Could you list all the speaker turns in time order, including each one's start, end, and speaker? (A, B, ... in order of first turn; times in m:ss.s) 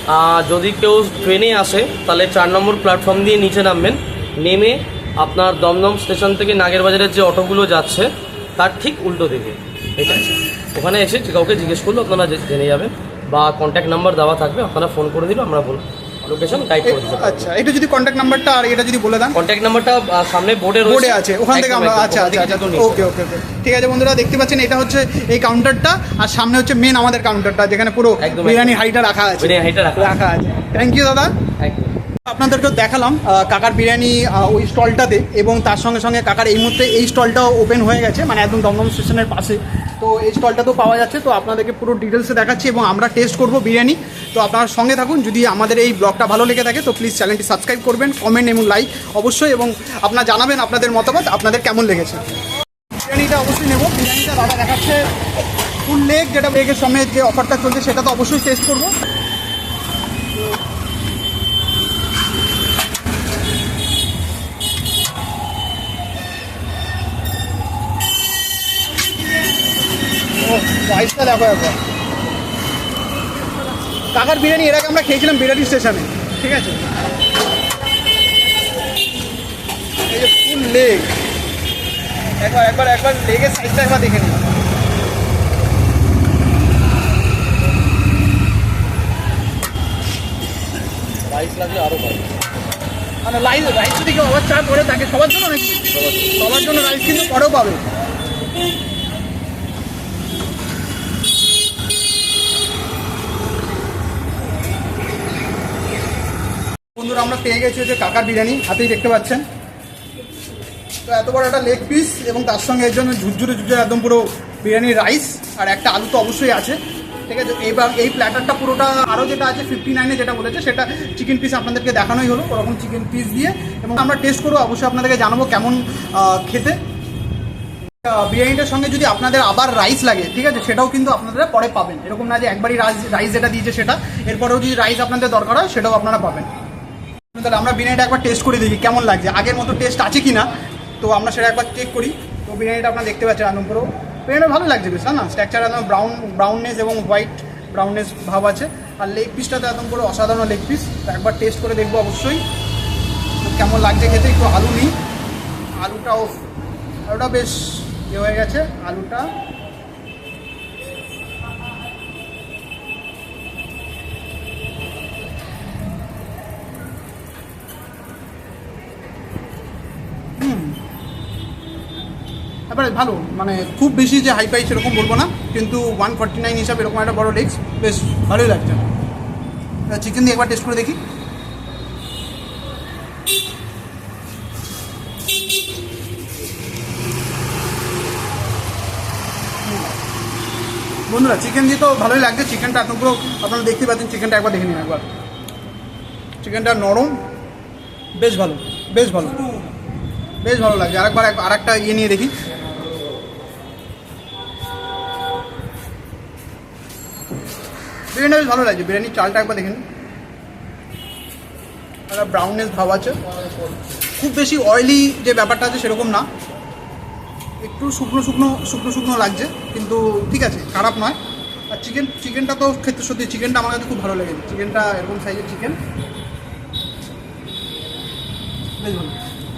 0:00.1-0:17.5 A
0:10.0-0:10.4 B
0:16.8-0:19.4 B
0:19.3-0:23.1 A
0:20.8-0:31.3 B
0:28.2-0:28.8 A
0:29.4-0:30.2 A
0:31.6-0:31.9 A
0:32.3-0:52.2 B
0:53.0-0:55.0 B
0:55.8-0:58.9 B
1:10.4-1:11.8 B
1:14.1-1:16.8 B
1:20.1-1:21.2 B
1:22.4-1:24.4 B
1:31.2-1:32.3 A
1:33.2-1:35.8 B
1:35.9-1:36.3 A
1:36.4-1:37.8 B
1:47.0-1:49.4 B
1:51.0-2:06.8 B
2:08.0-2:16.5 B
2:17.3-2:20.5 B
2:21.0-2:32.4 B
2:33.4-2:34.9 B
2:35.8-2:36.4 B
2:37.1-2:39.3 B
2:50.4-2:50.8 B
2:52.7-2:58.9 B
2:59.9-3:01.0 B
3:11.1-3:15.0 B
3:16.4-3:17.2 B
3:18.2-3:19.4 B
3:20.4-3:22.3 B
3:28.1-3:29.8 B
3:32.1-3:33.2 B
3:34.2-3:36.2 B
3:37.6-3:41.2 B
3:41.7-3:45.8 B
3:48.8-3:49.2 B